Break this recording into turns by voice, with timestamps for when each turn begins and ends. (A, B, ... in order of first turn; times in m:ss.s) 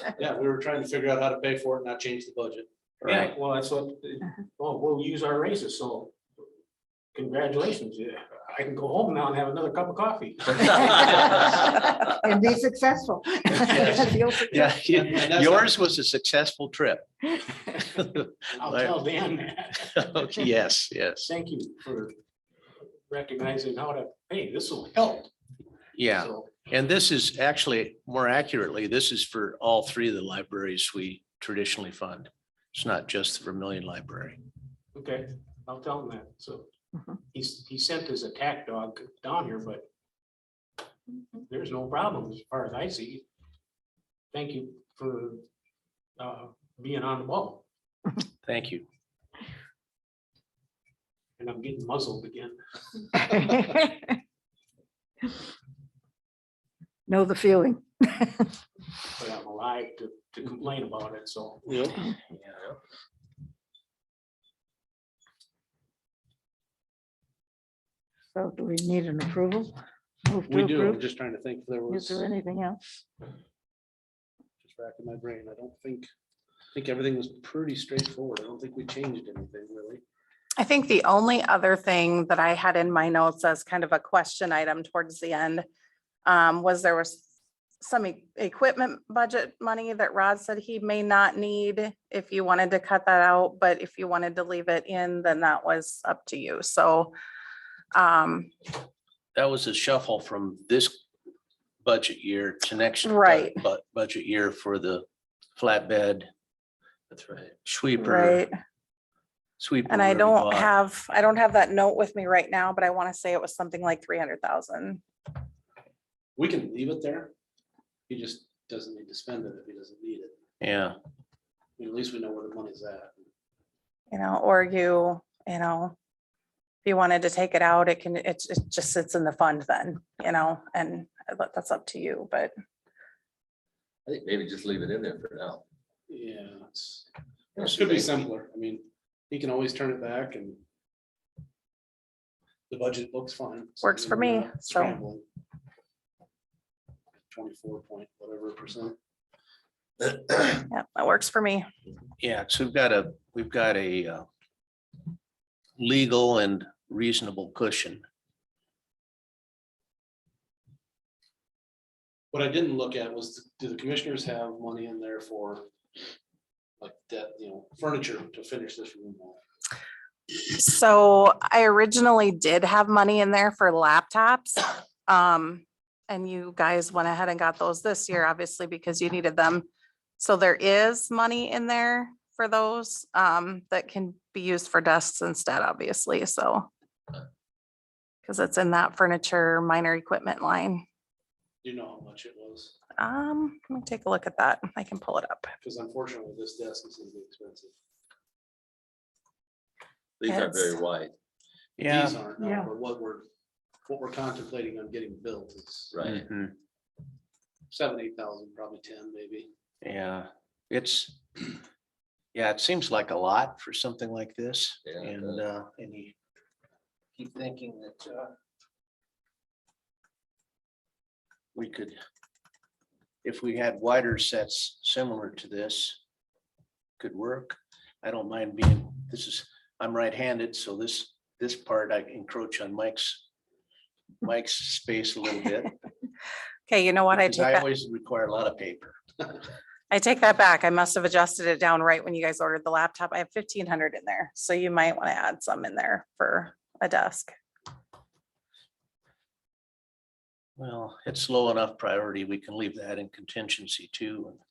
0:00.2-0:02.7 A
0:03.0-0:03.3 B
0:03.0-0:06.1 C
0:07.1-0:11.8 C
0:10.7-0:14.7 D
0:13.6-0:17.1 B
0:15.0-0:15.7 A
0:17.8-0:18.9 B
0:18.5-0:20.3 C
0:19.8-0:21.3 B
0:21.2-0:22.1 C
0:23.1-0:25.3 C
0:25.9-0:34.4 B
0:26.2-0:26.5 C
0:34.9-0:36.7 C
0:37.3-0:39.8 C
0:41.5-0:43.2 C
0:44.3-0:45.4 C
0:46.2-0:47.6 C
0:48.4-0:48.8 B
0:51.4-0:52.6 C
0:53.1-0:53.4 C
0:53.3-0:54.1 D
0:57.1-0:58.5 D
0:59.2-1:01.8 C
1:01.6-1:02.0 A
1:08.3-1:09.8 D
1:10.3-1:11.0 D
1:10.5-1:12.2 A
1:11.9-1:12.8 D
1:14.6-1:16.1 A
1:16.7-1:20.0 A
1:20.6-1:25.6 E
1:26.2-1:27.2 E
1:27.8-1:37.1 E
1:37.9-1:38.5 E
1:39.3-1:41.0 B
1:41.8-1:45.0 B
1:43.0-1:43.6 E
1:45.6-1:46.3 B
1:47.1-1:47.4 F
1:47.4-1:48.5 B
1:48.0-1:48.5 E
1:49.6-1:50.7 B
1:49.9-1:55.0 E
1:56.4-1:57.3 A
1:58.1-2:00.3 A
2:00.6-2:01.0 B
2:01.8-2:03.1 A
2:04.1-2:06.0 E
2:06.8-2:12.5 E
2:14.0-2:15.6 F
2:16.1-2:20.6 A
2:17.6-2:18.1 F
2:22.7-2:25.2 A
2:23.8-2:25.0 E
2:27.3-2:28.9 A
2:30.6-2:31.6 E
2:32.2-2:34.2 B
2:35.8-2:38.0 B
2:42.3-2:45.6 A
2:46.8-2:49.4 A
2:50.5-2:59.6 E
3:00.2-3:06.7 E
3:08.2-3:10.8 E
3:11.6-3:12.7 A
3:13.0-3:15.5 E
3:15.6-3:17.7 A
3:20.2-3:21.1 F
3:20.2-3:20.8 E
3:21.8-3:22.2 B
3:21.8-3:23.2 A
3:22.4-3:22.7 D
3:23.9-3:26.0 A
3:25.9-3:26.2 F
3:26.0-3:26.5 B
3:27.7-3:29.5 A
3:29.8-3:31.2 B
3:32.3-3:36.1 B
3:34.8-3:35.4 F
3:37.1-3:38.3 B
3:41.5-3:42.0 B
3:43.2-3:46.0 B
3:47.0-3:53.2 B
3:54.2-3:55.7 B
3:56.7-3:57.6 E
3:57.1-3:59.0 B
3:59.9-4:07.3 E
4:10.6-4:14.4 B